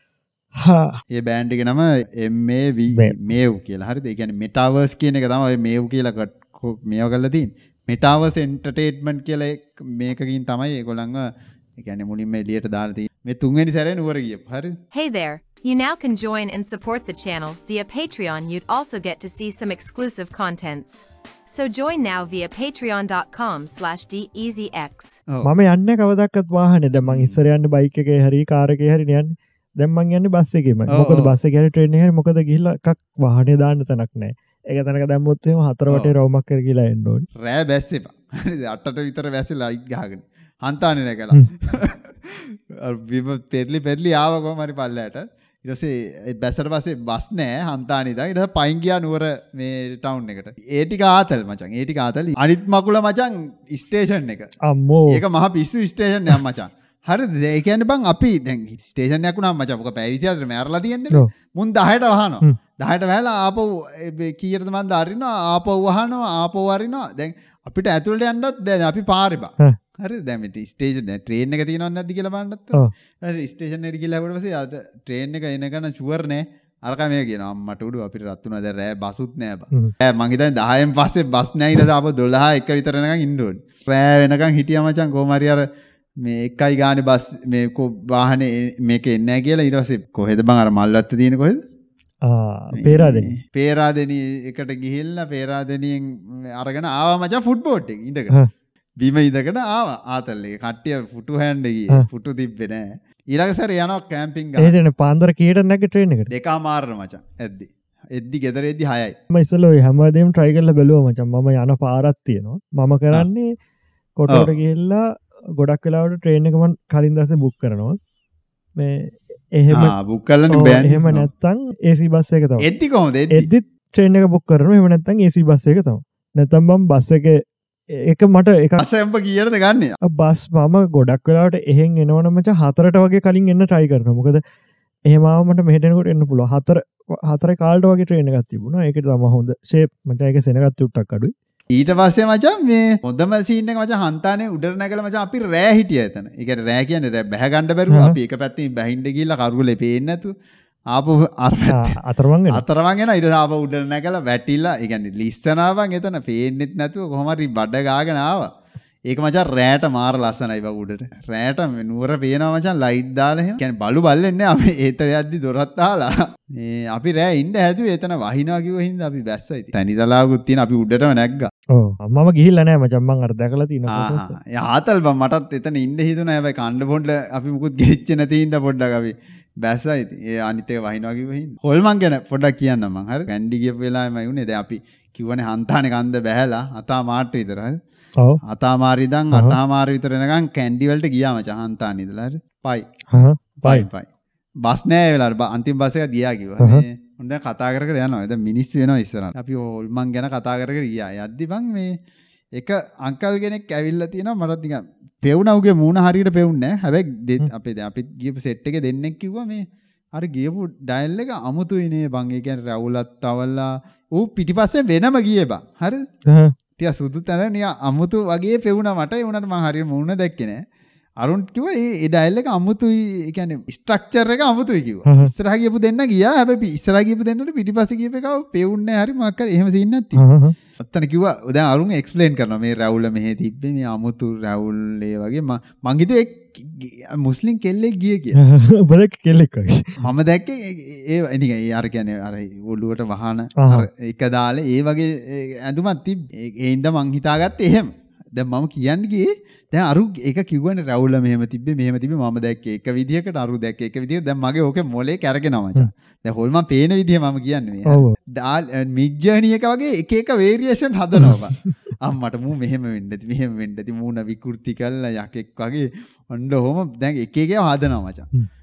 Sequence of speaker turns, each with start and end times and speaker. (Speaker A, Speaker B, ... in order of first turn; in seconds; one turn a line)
Speaker A: 0.6-1.0
Speaker B: 1.1-14.8
Speaker A: 2.9-3.2
Speaker C: 14.9-25.2
Speaker A: 25.4-37.3
Speaker B: 27.1-27.4
Speaker B: 30.9-31.3
Speaker B: 35.9-36.1
Speaker B: 37.4-54.5
Speaker A: 54.7-55.2
Speaker B: 55.1-85.6
Speaker B: 86.2-91.6
Speaker A: 92.2-93.3
Speaker B: 92.8-98.3
Speaker B: 99.0-104.8
Speaker A: 104.6-106.3
Speaker B: 106.3-109.2
Speaker A: 109.3-113.5
Speaker A: 114.2-115.0
Speaker A: 115.6-118.0
Speaker A: 118.8-120.0
Speaker B: 119.7-121.3
Speaker A: 120.5-122.7
Speaker B: 122.6-123.5
Speaker A: 123.3-127.4
Speaker A: 128.0-128.8
Speaker B: 128.8-129.9
Speaker A: 130.0-134.4
Speaker A: 135.1-141.3
Speaker B: 141.8-150.3
Speaker A: 147.9-148.2
Speaker B: 150.9-152.0
Speaker A: 151.7-152.6
Speaker B: 152.5-158.5
Speaker B: 159.1-171.5
Speaker A: 171.7-174.4
Speaker B: 173.9-187.8
Speaker B: 188.4-192.9
Speaker A: 189.3-189.6
Speaker A: 193.1-193.9
Speaker B: 193.6-194.1
Speaker B: 194.6-201.9
Speaker B: 202.6-216.0
Speaker A: 216.3-216.5
Speaker B: 216.8-220.6
Speaker B: 221.2-230.2
Speaker A: 225.1-225.3
Speaker A: 230.2-230.6
Speaker B: 230.8-238.4
Speaker A: 238.4-240.0
Speaker B: 240.0-268.3
Speaker A: 243.6-243.9
Speaker A: 257.9-258.2